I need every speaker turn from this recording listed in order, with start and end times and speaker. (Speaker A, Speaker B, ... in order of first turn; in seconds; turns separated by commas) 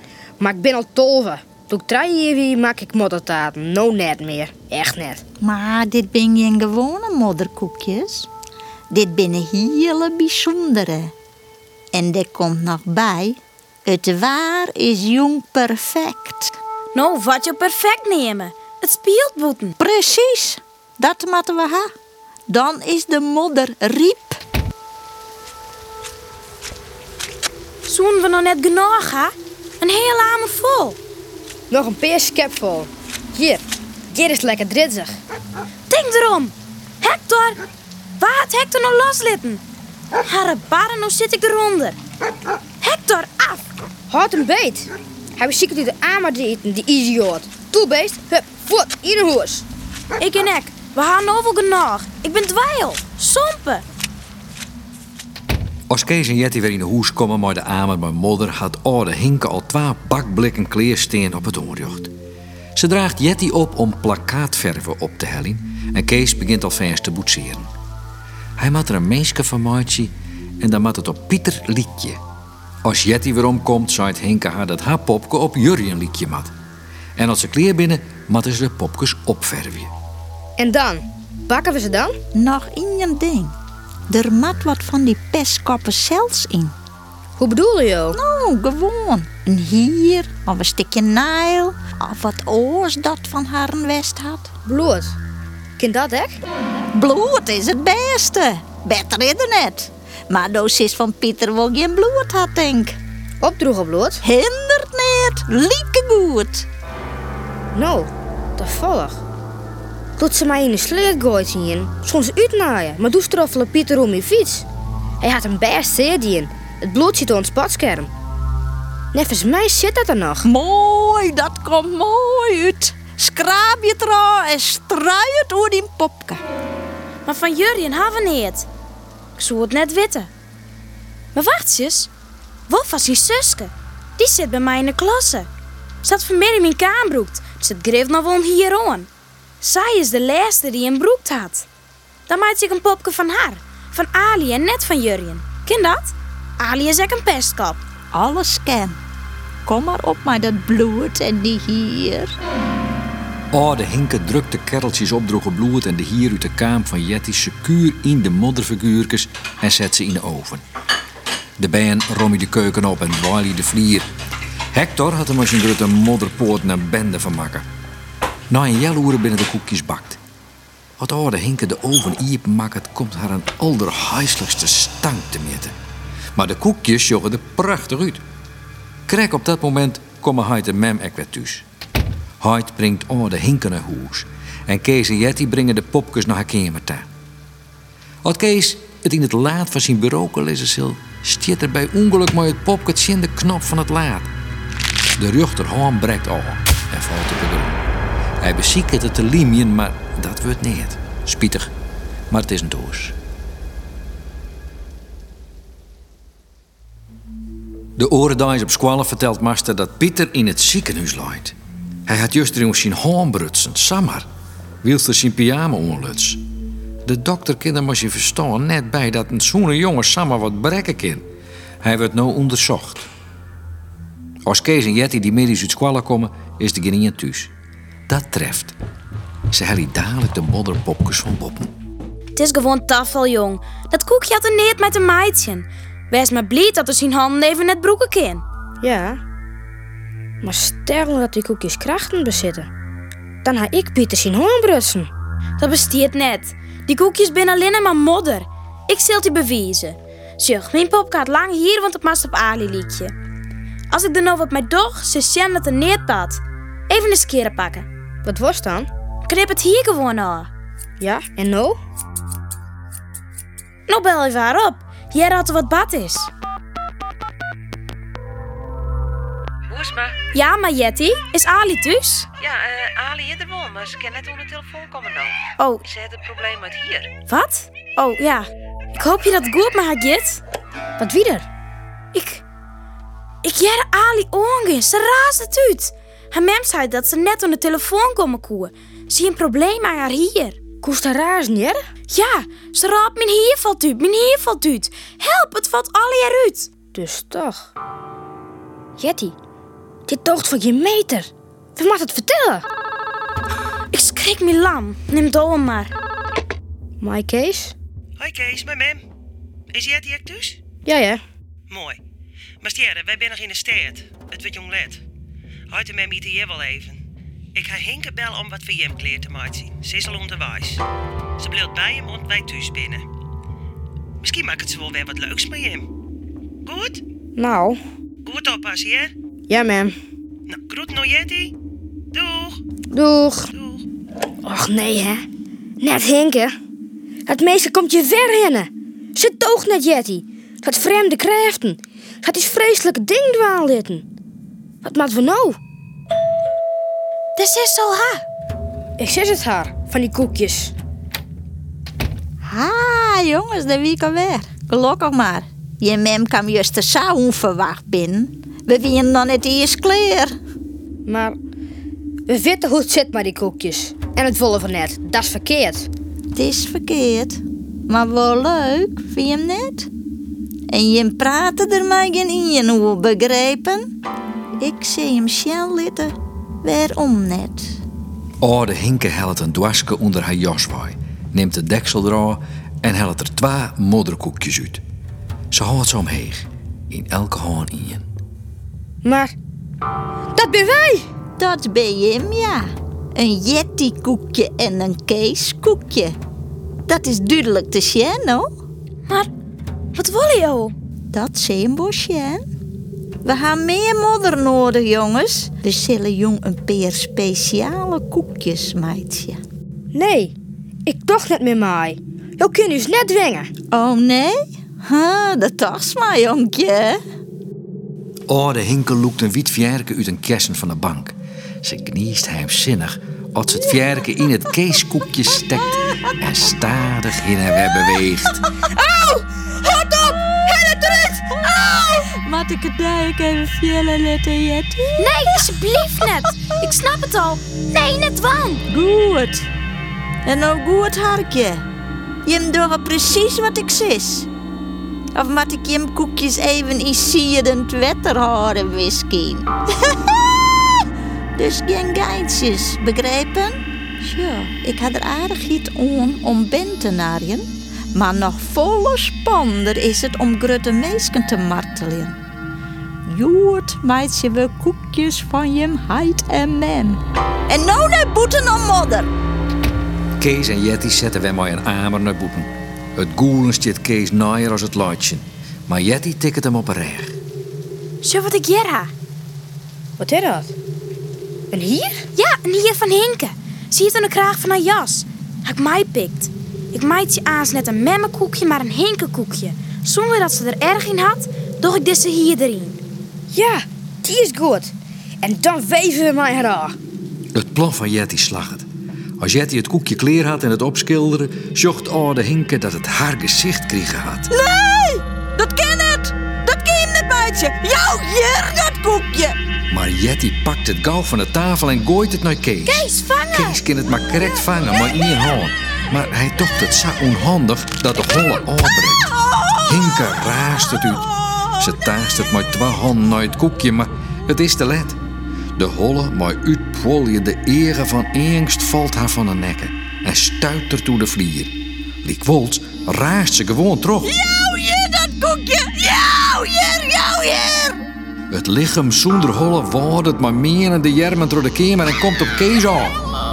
Speaker A: 0.4-5.2, Speaker B: 5.4-8.3, Speaker B: 8.9-11.1, Speaker B: 11.9-16.5, Speaker C: 16.9-19.7, Speaker B: 19.8-21.9, Speaker B: 22.5-24.4, Speaker C: 27.9-31.0, Speaker A: 31.7-35.2, Speaker C: 35.9-37.6, Speaker C: 38.2-39.6, Speaker C: 40.2-42.0, Speaker C: 42.8-43.6, Speaker A: 44.1-49.6, Speaker C: 50.2-53.8, Speaker D: 55.9-62.1, Speaker D: 62.8-67.7, Speaker D: 68.6-72.2, Speaker D: 72.8-76.5, Speaker D: 77.2-79.9, Speaker A: 80.6-82.1, Speaker B: 82.3-83.5, Speaker B: 84.1-86.7, Speaker A: 87.4-88.2, Speaker B: 88.1-94.5, Speaker A: 94.7-95.1, Speaker A: 95.8-96.4, Speaker B: 96.9-103.0, Speaker A: 103.4-104.2, Speaker B: 104.2-106.7, Speaker A: 107.7-109.2, Speaker A: 110.2-114.7, Speaker A: 115.2-118.1, Speaker A: 119.1-120.5, Speaker B: 120.4-126.4, Speaker C: 127.2-128.7, Speaker C: 129.3-130.3, Speaker C: 131.3-132.1, Speaker C: 132.7-135.5, Speaker C: 136.0-139.1, Speaker C: 139.6-141.7, Speaker C: 142.3-147.8, Speaker B: 148.1-149.0, Speaker B: 149.6-152.3, Speaker D: 153.5-160.6, Speaker D: 161.6-164.1, Speaker D: 164.7-167.7, Speaker D: 168.5-170.2, Speaker D: 171.0-175.7, Speaker D: 176.3-178.2, Speaker D: 179.1-181.7, Speaker D: 182.4-187.1, Speaker D: 188.2-194.3, Speaker D: 195.2-197.8, Speaker D: 198.4-201.7, Speaker D: 202.3-203.2, Speaker D: 208.0-211.5, Speaker D: 212.1-214.2, Speaker D: 214.8-216.4, Speaker D: 217.1-221.2, Speaker D: 221.8-223.1, Speaker D: 224.4-227.5, Speaker D: 228.1-228.8, Speaker D: 229.5-231.7, Speaker C: 232.3-238.4, Speaker A: 238.8-239.2, Speaker A: 240.4-242.7, Speaker A: 243.4-245.1, Speaker C: 245.6-253.1, Speaker C: 253.9-257.9, Speaker A: 258.2-258.9, Speaker C: 259.3-260.5, Speaker A: 261.0-261.8, Speaker C: 263.9-266.3, Speaker E: 269.7-270.1, Speaker C: 270.3-272.3, Speaker E: 272.4-275.4, Speaker C: 275.6-275.8, Speaker E: 275.9-277.1, Speaker C: 277.3-280.4, Speaker A: 281.0-281.5, Speaker C: 282.1-282.4, Speaker C: 283.4-290.6, Speaker A: 290.8-291.9, Speaker C: 292.1-296.7, Speaker A: 296.9-297.7, Speaker A: 299.0-299.4, Speaker A: 300.1-302.7, Speaker C: 303.9-305.9, Speaker A: 307.0-307.7, Speaker F: 308.2-309.0, Speaker F: 309.7-310.6, Speaker A: 310.9-311.2, Speaker F: 311.7-312.0, Speaker F: 312.6-315.0, Speaker F: 315.7-317.0, Speaker F: 317.5-320.8, Speaker F: 321.4-323.0, Speaker F: 324.2-325.9, Speaker F: 326.6-327.0, Speaker A: 327.4-327.8, Speaker F: 328.2-329.1, Speaker A: 329.5-329.9, Speaker F: 330.5-331.5, Speaker F: 332.1-332.6, Speaker A: 332.9-333.5, Speaker F: 333.5-333.8, Speaker A: 334.4-335.2, Speaker A: 335.8-336.5, Speaker A: 337.3-344.0, Speaker A: 344.8-345.6, Speaker C: 347.4-348.2, Speaker A: 349.0-350.7, Speaker B: 352.4-360.3, Speaker A: 361.1-361.4, Speaker A: 362.3-365.9, Speaker B: 366.3-369.9, Speaker B: 370.7-373.9, Speaker B: 374.6-377.8, Speaker D: 378.4-384.8, Speaker D: 385.5-388.1, Speaker A: 389.0-389.3, Speaker A: 390.3-391.1, Speaker B: 391.4-396.1, Speaker B: 396.9-398.5, Speaker C: 399.9-400.7, Speaker B: 401.1-402.4, Speaker B: 403.2-409.4, Speaker A: 409.9-410.3, Speaker A: 410.9-413.5, Speaker B: 413.7-417.0, Speaker D: 418.3-428.4, Speaker A: 428.9-429.2, Speaker B: 430.1-435.3, Speaker A: 430.6-431.0, Speaker C: 435.0-438.6, Speaker B: 438.7-439.5, Speaker B: 440.2-441.6, Speaker B: 442.2-444.3, Speaker B: 445.1-450.1, Speaker B: 451.4-462.2, Speaker B: 463.0-469.1, Speaker D: 470.2-477.2, Speaker C: 478.0-478.9, Speaker A: 480.0-480.5, Speaker A: 481.5-482.1, Speaker C: 482.1-492.8, Speaker A: 493.3-496.8, Speaker D: 497.3-498.7, Speaker D: 499.2-504.3, Speaker B: 504.3-509.4, Speaker D: 509.7-519.1, Speaker C: 512.6-513.6, Speaker D: 519.6-525.0, Speaker D: 525.5-534.1, Speaker B: 534.0-537.8, Speaker D: 538.3-543.0